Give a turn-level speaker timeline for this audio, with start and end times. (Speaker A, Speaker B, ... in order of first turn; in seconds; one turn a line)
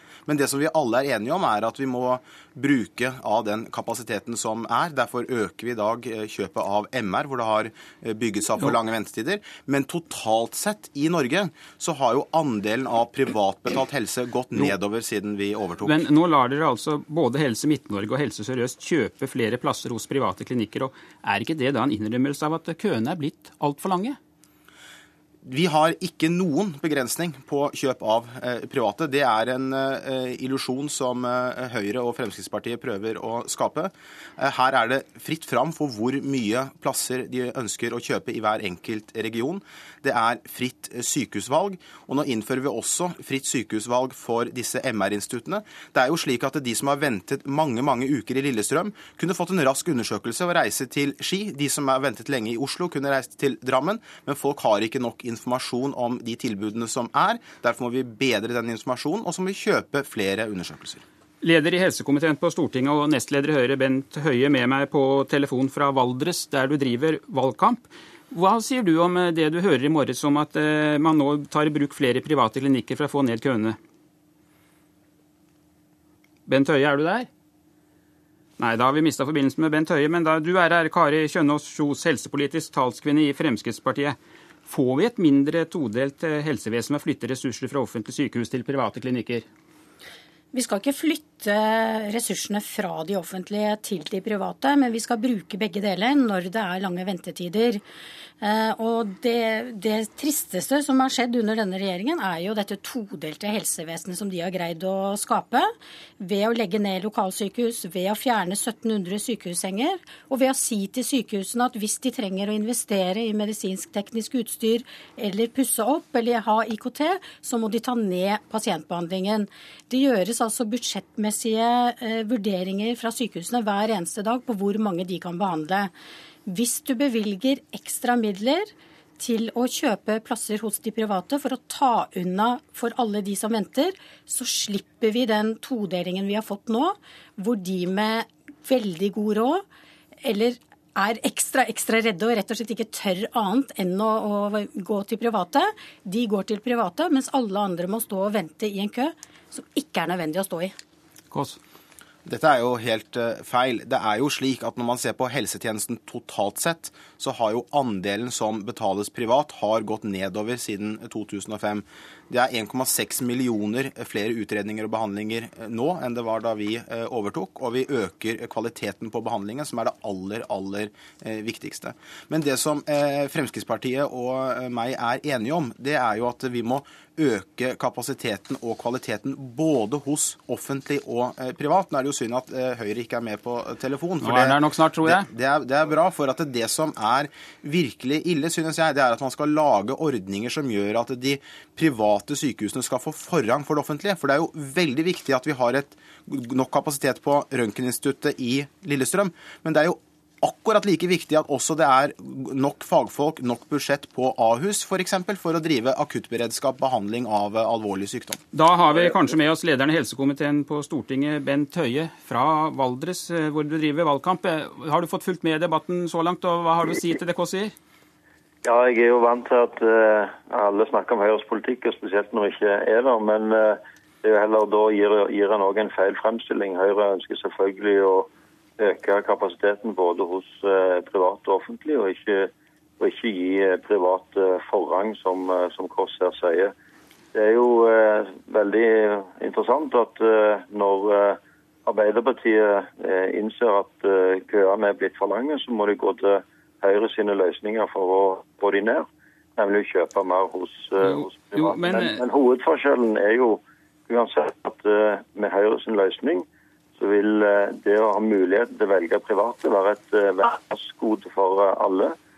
Speaker A: 0.3-16.1
Speaker B: 15.8-24.2
Speaker A: 25.5-61.0
Speaker B: 61.4-73.8
Speaker B: 76.5-77.3
Speaker B: 78.6-89.5
Speaker C: 90.5-97.8
Speaker C: 98.4-125.9
Speaker C: 126.5-139.6
Speaker C: 140.2-150.7
Speaker B: 151.3-151.6
Speaker A: 152.3-208.4
Speaker B: 184.2-185.3
Speaker B: 208.5-217.7
Speaker D: 208.9-209.2
Speaker D: 218.6-236.7
Speaker D: 237.3-256.4
Speaker B: 251.1-252.2
Speaker D: 257.0-262.1